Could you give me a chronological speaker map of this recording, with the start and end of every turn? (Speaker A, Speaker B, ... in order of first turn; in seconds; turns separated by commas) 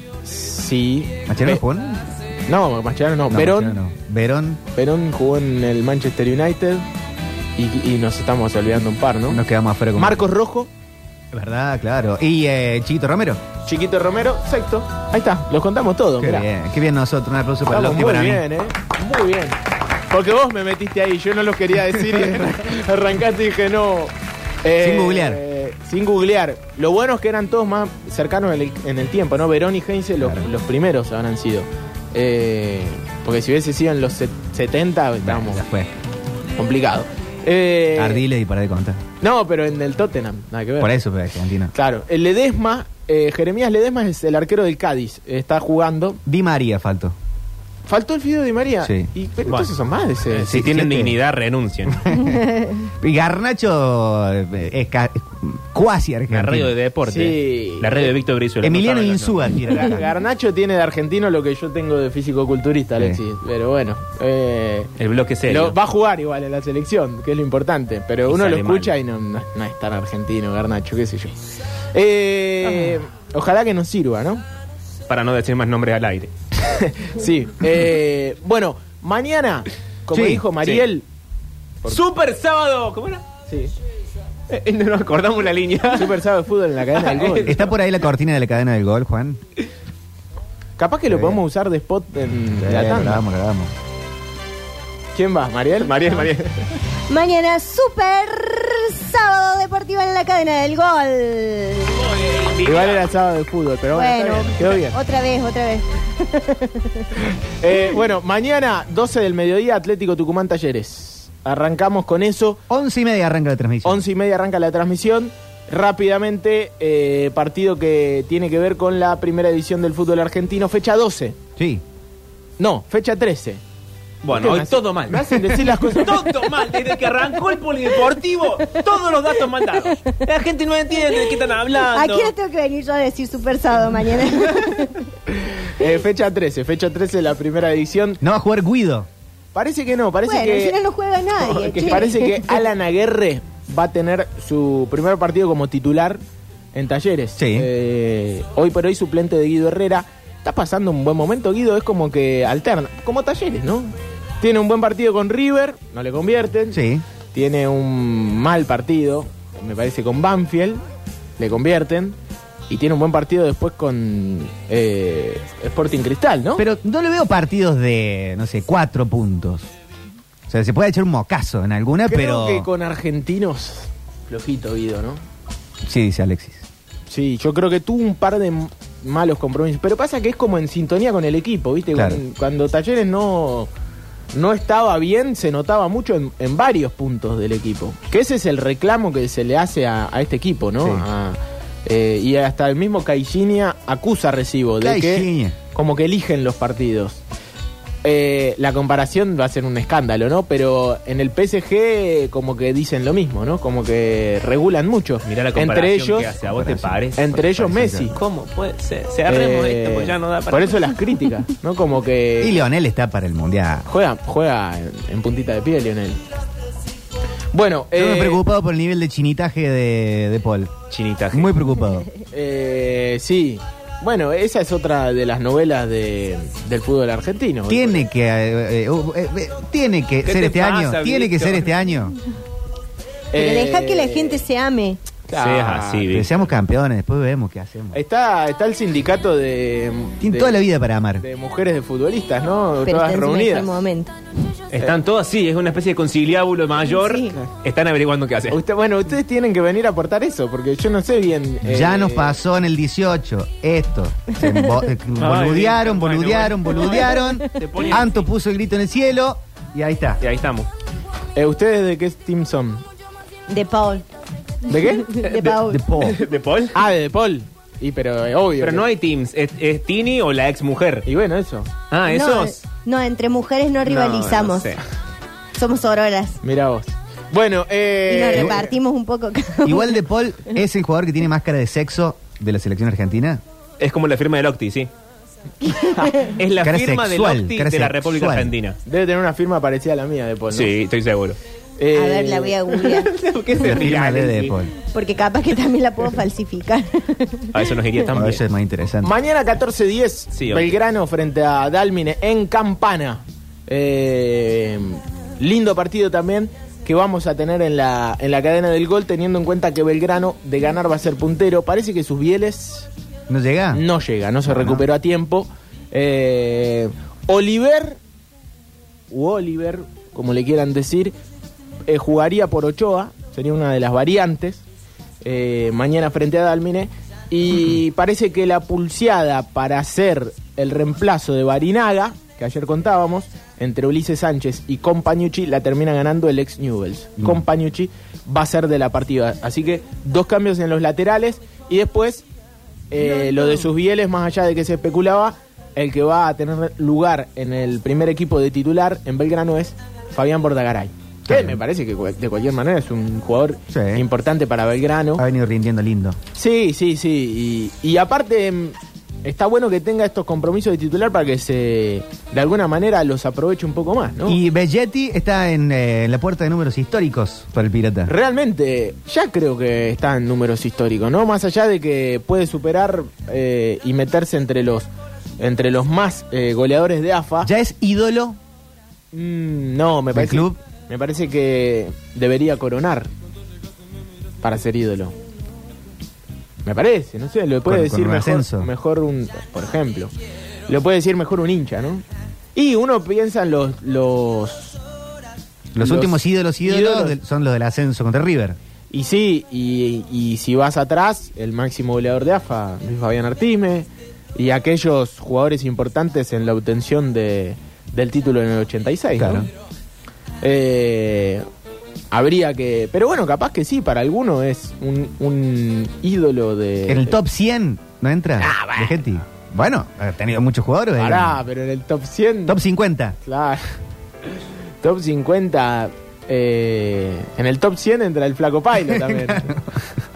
Speaker A: 0.2-1.6, Speaker B: 1.3-2.0, Speaker A: 2.5-3.8, Speaker B: 3.3-4.6, Speaker A: 4.8-6.9, Speaker A: 7.6-9.4, Speaker B: 9.3-10.3, Speaker A: 10.0-10.7, Speaker B: 11.3-13.4, Speaker A: 13.7-16.5, Speaker B: 16.2-18.4, Speaker A: 17.7-19.6, Speaker A: 20.1-24.1, Speaker A: 24.6-35.6, Speaker B: 24.8-25.4, Speaker B: 30.2-30.5, Speaker B: 35.2-36.0, Speaker A: 36.6-38.2, Speaker B: 38.0-39.0, Speaker A: 39.2-40.9, Speaker B: 40.8-41.7, Speaker A: 41.7-46.2, Speaker B: 46.3-47.1, Speaker A: 47.9-50.5, Speaker B: 48.8-49.1, Speaker C: 49.5-49.7, Speaker C: 50.3-52.1, Speaker B: 50.5-51.1, Speaker B: 51.9-56.7, Speaker C: 56.3-59.5, Speaker A: 57.1-58.1, Speaker B: 58.6-60.1, Speaker A: 59.7-64.9, Speaker C: 65.0-65.8, Speaker A: 65.5-71.3, Speaker C: 68.3-68.9, Speaker A: 71.9-74.4, Speaker C: 75.1-76.3, Speaker A: 76.6-81.0, Speaker B: 80.1-80.5, Speaker C: 81.9-83.2, Speaker C: 84.5-86.2, Speaker A: 85.9-87.6, Speaker C: 87.0-87.7, Speaker B: 87.5-89.4, Speaker A: 90.8-93.2, Speaker B: 91.1-91.4, Speaker B: 92.6-93.7, Speaker A: 95.2-96.6, Speaker D: 97.1-102.0, Speaker C: 102.0-103.1, Speaker A: 102.6-105.0, Speaker D: 103.9-107.1, Speaker A: 107.6-112.6, Speaker B: 112.7-114.0, Speaker A: 113.8-121.4, Speaker B: 121.6-121.8, Speaker A: 122.6-123.6, Speaker C: 124.2-132.3, Speaker A: 124.3-126.5, Speaker D: 129.8-130.2, Speaker D: 131.9-135.0, Speaker A: 135.3-138.2, Speaker B: 138.2-139.1, Speaker A: 139.5-140.8, Speaker D: 140.2-142.4, Speaker A: 141.5-146.2, Speaker C: 141.6-141.9, Speaker A: 146.7-156.8, Speaker B: 147.4-147.7, Speaker B: 156.7-157.0, Speaker A: 157.3-160.8, Speaker A: 161.4-162.2, Speaker A: 162.7-166.6, Speaker B: 166.6-169.7, Speaker B: 170.5-172.7, Speaker A: 172.1-175.2, Speaker B: 175.8-176.7, Speaker A: 177.1-183.7, Speaker B: 181.9-182.2, Speaker A: 184.3-197.2, Speaker B: 194.8-195.6, Speaker A: 198.0-206.3, Speaker C: 205.2-207.5, Speaker B: 206.4-208.1, Speaker A: 207.2-208.2, Speaker C: 208.1-210.9, Speaker A: 209.3-212.6, Speaker B: 212.4-213.9, Speaker A: 213.9-216.2, Speaker A: 217.5-218.4, Speaker B: 217.9-220.7, Speaker C: 220.9-221.5, Speaker B: 221.3-222.1, Speaker A: 222.3-228.1, Speaker B: 227.7-232.2, Speaker C: 230.2-231.8, Speaker A: 233.3-234.4, Speaker D: 233.3-235.0, Speaker A: 235.3-236.1, Speaker C: 235.4-236.3, Speaker B: 236.1-238.0, Speaker A: 237.9-240.6, Speaker B: 240.2-241.2, Speaker A: 241.2-243.8, Speaker D: 242.8-244.1, Speaker C: 244.7-248.6, Speaker D: 246.9-247.4, Speaker A: 248.5-252.4, Speaker B: 251.6-260.2, Speaker C: 255.2-258.3, Speaker C: 260.2-260.7, Speaker A: 261.4-262.8, Speaker D: 263.5-264.1, Speaker A: 264.7-265.2, Speaker D: 265.0-265.8, Speaker C: 265.2-266.8, Speaker B: 265.6-266.2, Speaker A: 266.7-268.9, Speaker C: 268.6-271.1, Speaker A: 271.1-271.7, Speaker C: 271.9-272.6, Speaker D: 272.1-274.8, Speaker C: 273.9-274.8, Speaker D: 275.6-276.4, Speaker A: 276.4-278.7, Speaker D: 278.1-280.0, Speaker B: 279.6-283.4, Speaker C: 283.8-284.9, Speaker D: 285.6-286.1, Speaker C: 286.2-288.8, Speaker B: 286.6-288.5, Speaker A: 288.9-290.7, Speaker C: 290.5-291.4, Speaker A: 291.8-292.7, Speaker D: 291.9-293.1, Speaker C: 292.9-294.5, Speaker B: 293.6-294.7, Speaker A: 293.6-294.5, Speaker D: 294.8-297.5, Speaker C: 297.5-298.4, Speaker B: 298.1-299.1, Speaker A: 299.0-312.9, Speaker C: 300.3-300.8, Speaker B: 313.3-313.8, Speaker A: 313.7-318.0, Speaker B: 314.5-314.8, Speaker A: 319.1-321.1, Speaker A: 321.9-324.6, Speaker A: 325.2-342.2, Speaker A: 342.9-355.2, Speaker B: 351.3-351.6, Speaker B: 353.7-354.1, Speaker B: 355.2-356.2, Speaker A: 356.4-364.4, Speaker B: 364.3-368.1, Speaker A: 368.1-374.9, Speaker A: 375.4-377.5, Speaker B: 377.4-378.4, Speaker A: 379.1-383.1, Speaker B: 380.1-380.6, Speaker A: 384.4-385.1, Speaker A: 386.6-390.1, Speaker B: 387.7-388.7, Speaker A: 390.7-392.0, Speaker A: 392.6-394.8, Speaker B: 395.8-398.6, Speaker A: 395.8-397.2, Speaker A: 398.9-409.5, Speaker B: 409.1-409.5, Speaker A: 410.4-411.4, Speaker A: 412.1-417.2, Speaker B: 416.9-421.4, Speaker A: 418.4-419.0, Speaker A: 421.0-422.6, Speaker B: 422.5-423.2, Speaker A: 423.2-423.7, Speaker A: 424.8-429.5, Speaker B: 428.9-429.8